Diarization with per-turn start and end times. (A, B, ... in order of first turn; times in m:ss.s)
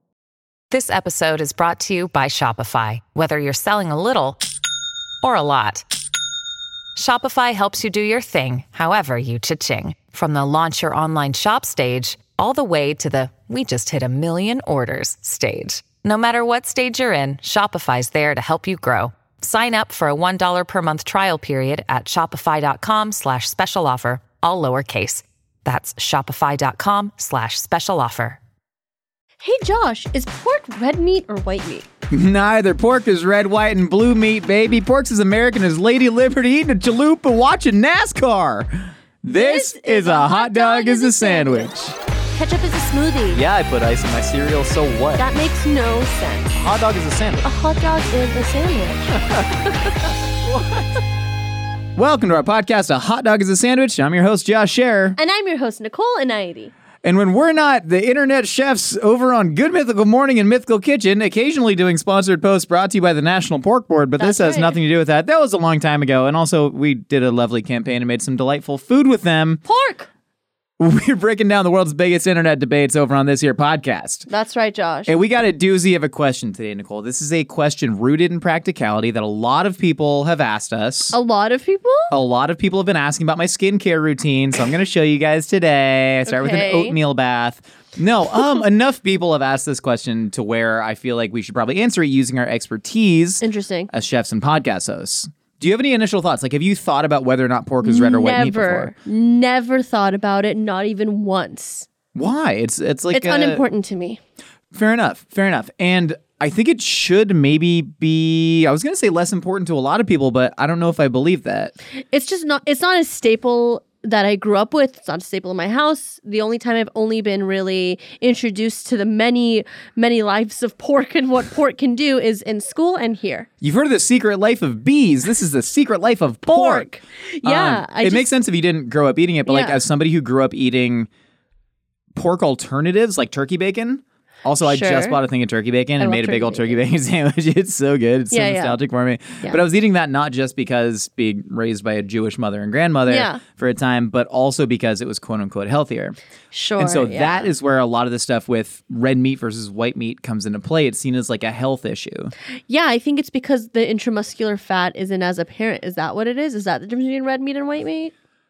0:00.7-0:04.4 A
0:05.2-0:05.8 A
0:06.9-0:28.4 A
0:29.4-0:31.8 B
0:32.1-0:42.0 C
0:39.3-0:41.7 B
0:42.3-0:43.4 B
0:43.3-0:45.2 C
0:45.2-0:46.6 B
0:46.5-0:47.5 C
0:47.4-0:49.9 B
0:50.4-0:50.7 C
0:52.0-0:55.2 C
0:55.2-0:56.7 B
0:57.0-1:09.6 C
1:04.2-1:04.8 B
1:09.6-1:10.1 B
1:10.8-1:14.3 C
1:14.3-1:15.1 B
1:15.0-1:21.2 C
1:21.1-1:22.1 B
1:22.1-1:38.9 C
1:26.3-1:27.0 B
1:33.4-1:33.9 B
1:37.8-1:41.9 B
1:42.1-1:43.6 C
1:43.1-1:44.2 B
1:44.7-1:51.7 C
1:52.1-2:03.5 B
2:03.6-2:06.9 C
2:06.4-2:08.3 B
2:07.4-2:11.1 C
2:09.5-2:09.8 B
2:12.1-2:26.2 C
2:14.6-2:15.2 B
2:16.0-2:16.8 B
2:18.3-2:18.8 B
2:23.1-2:23.4 B
2:26.5-2:27.5 B
2:26.8-2:32.3 C
2:32.7-2:38.1 B